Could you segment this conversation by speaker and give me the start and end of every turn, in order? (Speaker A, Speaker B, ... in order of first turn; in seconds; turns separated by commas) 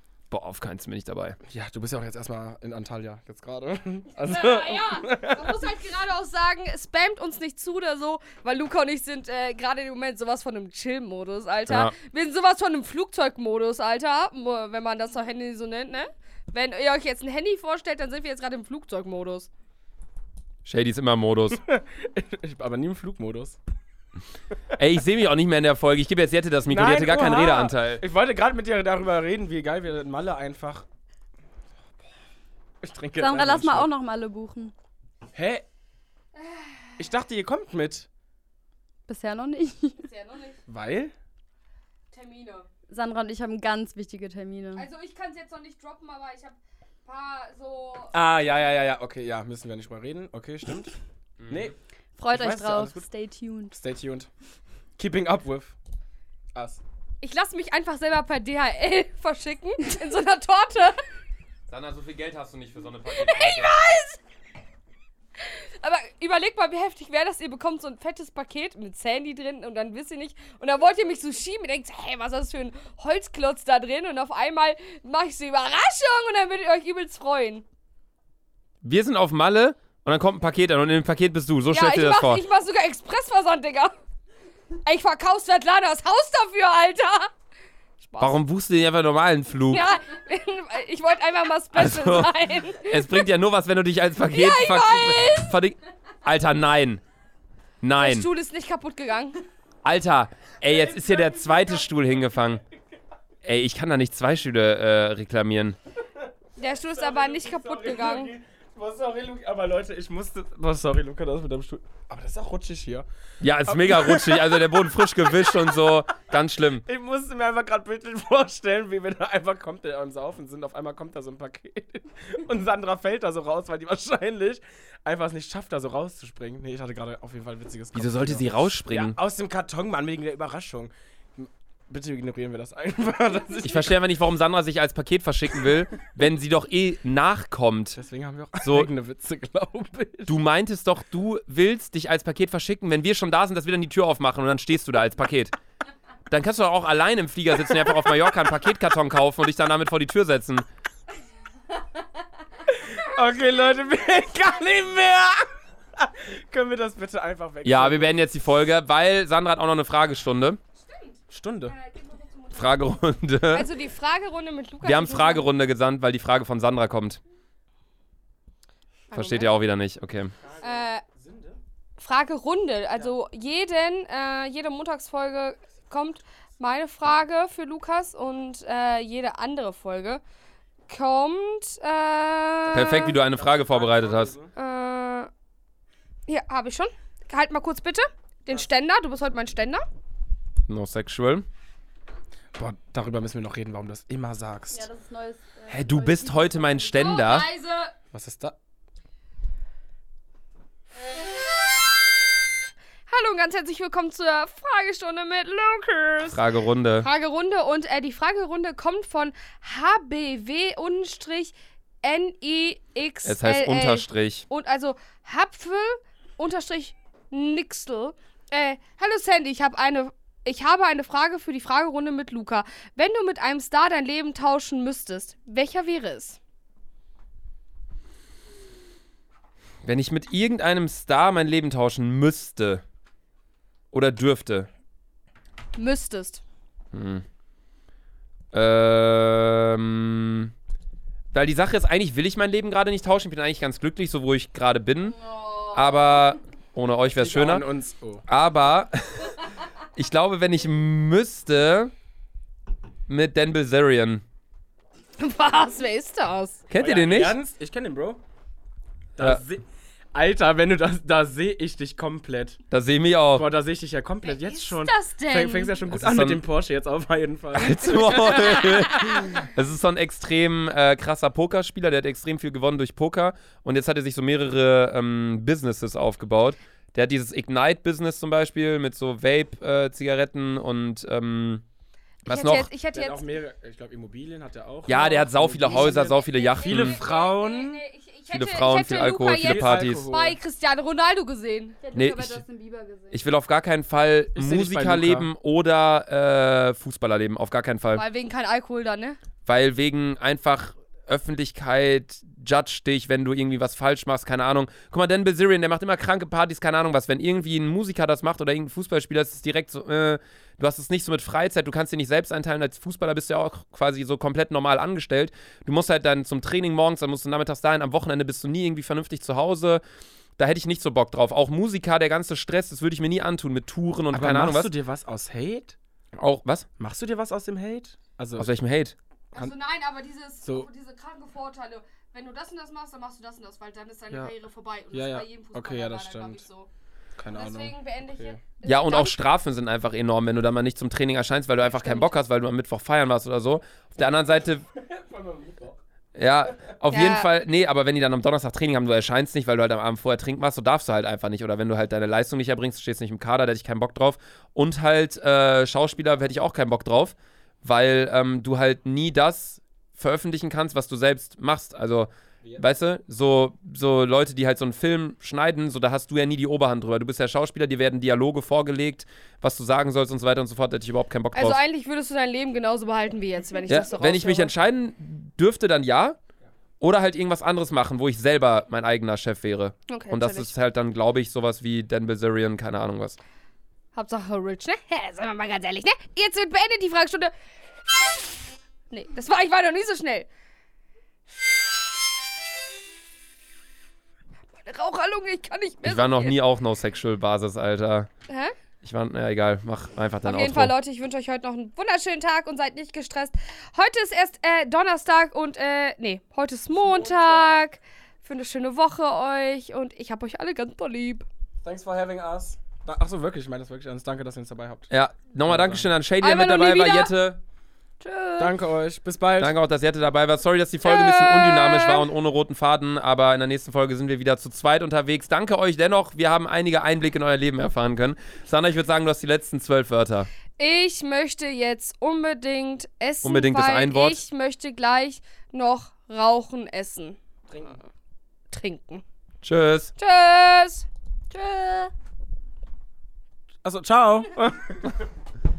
Speaker A: 0.3-1.4, Speaker B: 1.5-5.6, Speaker C: 4.2-19.5, Speaker A: 11.7-11.9, Speaker A: 20.6-21.6, Speaker B: 21.7-23.6, Speaker A: 24.8-28.0, Speaker B: 26.7-30.9, Speaker B: 32.8-33.9, Speaker D: 33.2-34.7, Speaker B: 35.3-35.6, Speaker C: 36.4-37.0, Speaker B: 37.0-38.1, Speaker D: 39.1-40.0, Speaker C: 40.0-40.6, Speaker B: 40.7-41.1, Speaker C: 42.1-42.7, Speaker D: 42.9-44.9, Speaker C: 44.8-48.2, Speaker B: 48.1-51.0, Speaker A: 51.4-51.7, Speaker B: 51.5-51.8, Speaker D: 52.2-53.8, Speaker B: 52.3-53.1, Speaker B: 53.7-54.3, Speaker B: 55.0-55.8, Speaker B: 56.5-56.8, Speaker C: 57.2-61.0, Speaker A: 61.7-63.8, Speaker C: 63.1-64.2, Speaker C: 65.4-77.7, Speaker A: 78.8-82.4, Speaker C: 81.7-83.9, Speaker C: 84.8-87.3, Speaker C: 88.0-88.4, Speaker A: 88.2-89.8, Speaker C: 89.7-93.2, Speaker A: 91.7-97.0, Speaker C: 94.3-95.5, Speaker A: 97.8-98.3, Speaker C: 98.0-99.4, Speaker A: 99.8-102.6, Speaker B: 100.6-101.8, Speaker A: 103.4-105.8, Speaker C: 106.6-108.3, Speaker B: 106.8-113.1, Speaker A: 113.4-116.8, Speaker B: 113.7-115.8, Speaker B: 116.9-134.0, Speaker A: 127.9-129.2, Speaker A: 133.6-138.0, Speaker B: 137.9-140.3, Speaker A: 138.6-138.9, Speaker A: 140.3-145.5, Speaker A: 146.3-150.7, Speaker B: 152.7-158.2, Speaker A: 157.6-160.6, Speaker C: 160.8-163.0, Speaker B: 161.3-161.8, Speaker A: 162.5-163.7, Speaker C: 163.5-165.5, Speaker A: 164.8-167.2, Speaker C: 169.1-169.5, Speaker A: 169.1-170.3, Speaker B: 170.4-171.6, Speaker C: 170.6-171.0, Speaker C: 172.0-180.2, Speaker C: 180.9-183.2, Speaker A: 182.7-184.3, Speaker B: 183.1-184.5, Speaker C: 184.6-185.3, Speaker C: 186.3-189.8, Speaker A: 190.7-191.5, Speaker B: 192.6-194.9, Speaker D: 194.7-197.1, Speaker A: 195.7-197.5, Speaker C: 196.9-197.9, Speaker B: 198.1-198.6, Speaker C: 203.1-206.4, Speaker A: 206.3-207.1, Speaker C: 207.0-226.4, Speaker A: 213.3-214.4, Speaker A: 229.8-232.8, Speaker A: 233.9-234.7, Speaker C: 235.8-236.4, Speaker A: 236.9-237.2, Speaker A: 238.5-240.5, Speaker A: 241.3-245.2, Speaker D: 245.2-245.8, Speaker A: 245.7-247.7, Speaker B: 247.1-248.2, Speaker A: 248.3-249.4, Speaker A: 250.0-251.9, Speaker A: 253.1-254.2, Speaker C: 255.2-256.6, Speaker A: 256.7-257.4, Speaker B: 256.8-258.2, Speaker B: 259.2-262.6, Speaker A: 262.7-263.5, Speaker B: 263.3-269.3, Speaker C: 264.3-265.8, Speaker A: 265.9-266.4, Speaker A: 267.5-281.6, Speaker A: 282.3-282.7, Speaker C: 282.3-283.2, Speaker B: 282.9-287.8, Speaker A: 284.9-287.0, Speaker C: 285.7-291.8, Speaker A: 288.3-290.1, Speaker B: 289.3-290.4, Speaker D: 291.8-293.2, Speaker A: 291.9-292.4, Speaker A: 293.1-298.0, Speaker B: 294.3-295.3, Speaker C: 297.9-299.2, Speaker A: 299.5-319.8, Speaker A: 320.4-324.7, Speaker B: 324.1-325.8, Speaker A: 326.2-326.7, Speaker B: 326.8-328.5, Speaker A: 328.4-328.9, Speaker C: 329.3-336.7, Speaker B: 330.4-330.7, Speaker B: 334.9-336.4, Speaker B: 337.2-338.4, Speaker C: 337.3-339.2, Speaker A: 338.6-344.6, Speaker C: 341.7-342.2, Speaker B: 344.0-345.8, Speaker A: 346.2-371.6, Speaker C: 346.9-347.3, Speaker C: 371.3-374.5, Speaker A: 373.7-376.2, Speaker A: 376.8-383.2, Speaker C: 379.9-380.5, Speaker C: 383.9-387.3, Speaker C: 387.9-388.4, Speaker C: 388.9-390.3, Speaker C: 394.6-396.4, Speaker A: 395.8-398.1, Speaker C: 398.3-398.5, Speaker A: 398.8-400.7, Speaker C: 400.2-411.3, Speaker B: 406.8-407.6, Speaker B: 411.6-414.9, Speaker A: 414.9-417.4, Speaker B: 415.5-415.9, Speaker C: 416.2-417.1, Speaker D: 418.0-418.5, Speaker B: 418.4-419.6, Speaker A: 419.4-430.3, Speaker C: 420.8-422.0, Speaker C: 430.6-437.2, Speaker A: 433.2-434.2, Speaker B: 437.5-437.8, Speaker C: 438.5-439.0, Speaker A: 439.4-439.9, Speaker C: 440.0-440.9, Speaker D: 441.3-441.9, Speaker B: 443.6-445.1